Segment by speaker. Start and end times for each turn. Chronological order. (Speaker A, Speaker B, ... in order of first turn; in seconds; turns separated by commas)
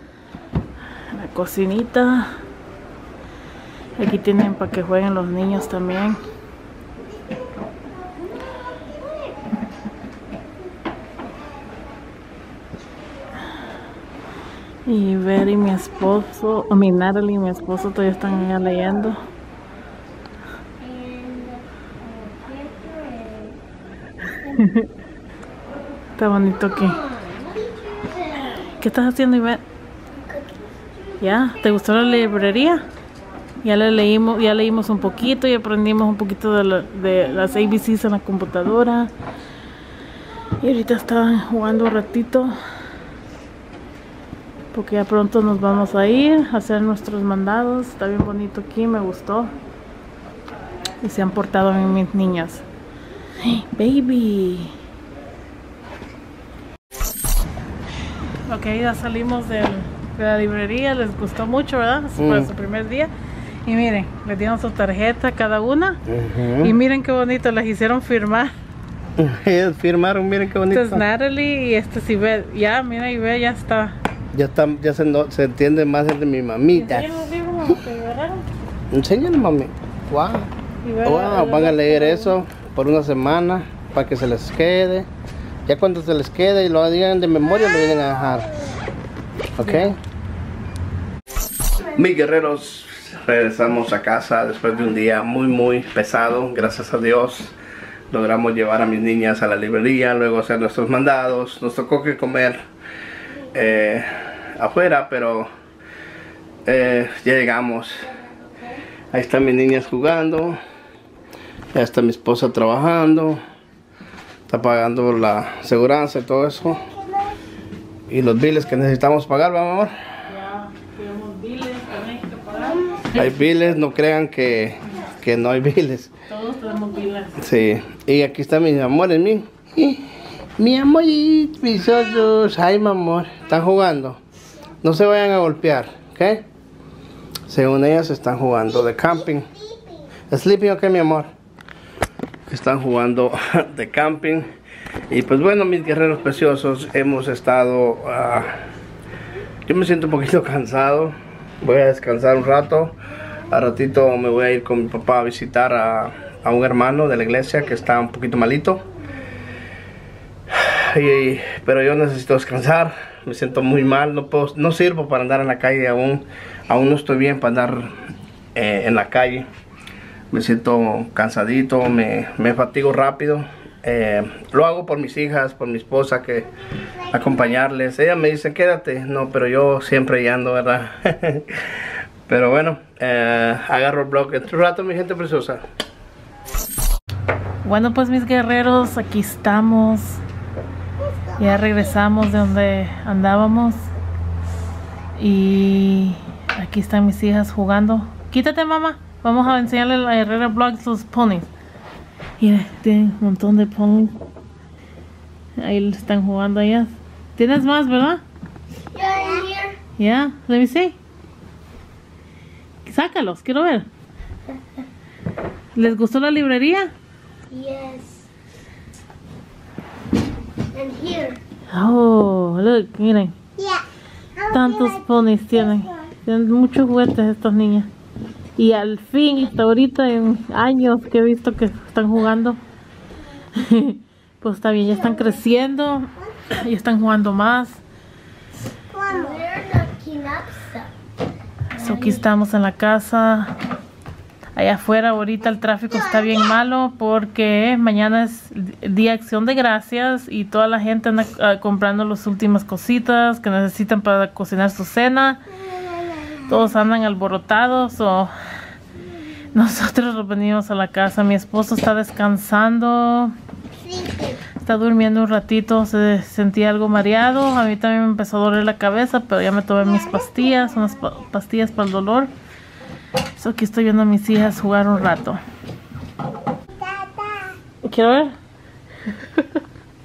Speaker A: 1.1-2.3, Speaker A: 4.0-6.2, Speaker A: 14.8-19.2, Speaker B: 20.8-21.6, Speaker B: 22.2-23.6, Speaker A: 24.4-24.9, Speaker A: 26.1-27.1, Speaker B: 27.1-28.2, Speaker A: 28.6-29.6, Speaker A: 31.2-32.8, Speaker A: 33.6-39.1, Speaker A: 40.6-42.5, Speaker A: 44.7-49.5, Speaker A: 51.0-52.6, Speaker A: 53.4-54.7, Speaker A: 58.4-63.1, Speaker C: 62.2-62.5, Speaker A: 63.6-66.0, Speaker C: 66.1-66.8, Speaker A: 66.6-68.5, Speaker C: 69.2-71.0, Speaker A: 70.7-74.0, Speaker C: 74.3-77.2, Speaker A: 76.7-78.5, Speaker C: 78.9-80.5, Speaker A: 80.8-82.3, Speaker C: 81.0-85.1, Speaker C: 85.7-88.5, Speaker C: 89.5-90.0, Speaker A: 89.6-89.9, Speaker C: 91.9-97.5, Speaker C: 98.1-102.6, Speaker C: 103.5-105.5, Speaker C: 106.7-108.1, Speaker C: 109.1-110.6, Speaker C: 111.7-113.4, Speaker C: 114.5-116.9, Speaker C: 118.1-119.9, Speaker A: 120.3-123.2, Speaker C: 123.1-126.1, Speaker A: 126.3-127.4, Speaker C: 127.4-134.2, Speaker C: 134.8-136.4, Speaker C: 137.5-139.5, Speaker B: 139.7-140.0, Speaker C: 140.3-141.3, Speaker C: 142.5-144.5, Speaker C: 145.1-148.6, Speaker C: 149.7-152.9, Speaker C: 153.5-158.8, Speaker C: 160.5-167.9, Speaker C: 168.5-169.5, Speaker C: 170.3-176.5, Speaker C: 177.1-181.7, Speaker C: 182.3-185.6, Speaker A: 187.6-190.2, Speaker A: 191.4-193.9, Speaker A: 195.2-201.5, Speaker A: 202.4-204.2, Speaker A: 205.6-208.2, Speaker B: 208.9-209.7, Speaker A: 210.0-210.9, Speaker A: 212.8-213.9, Speaker A: 215.7-216.9, Speaker B: 217.5-218.2, Speaker B: 220.7-221.4, Speaker A: 221.7-223.3, Speaker B: 223.6-223.8, Speaker B: 224.3-225.0, Speaker A: 224.5-227.9, Speaker A: 228.6-232.6, Speaker A: 233.5-237.8, Speaker B: 238.9-240.9, Speaker A: 239.1-239.4, Speaker A: 241.8-243.5, Speaker A: 244.5-255.4, Speaker A: 256.4-258.3, Speaker A: 259.5-263.3, Speaker B: 263.8-264.4, Speaker A: 264.6-272.3, Speaker A: 273.3-275.4, Speaker B: 276.8-277.5, Speaker A: 277.8-278.3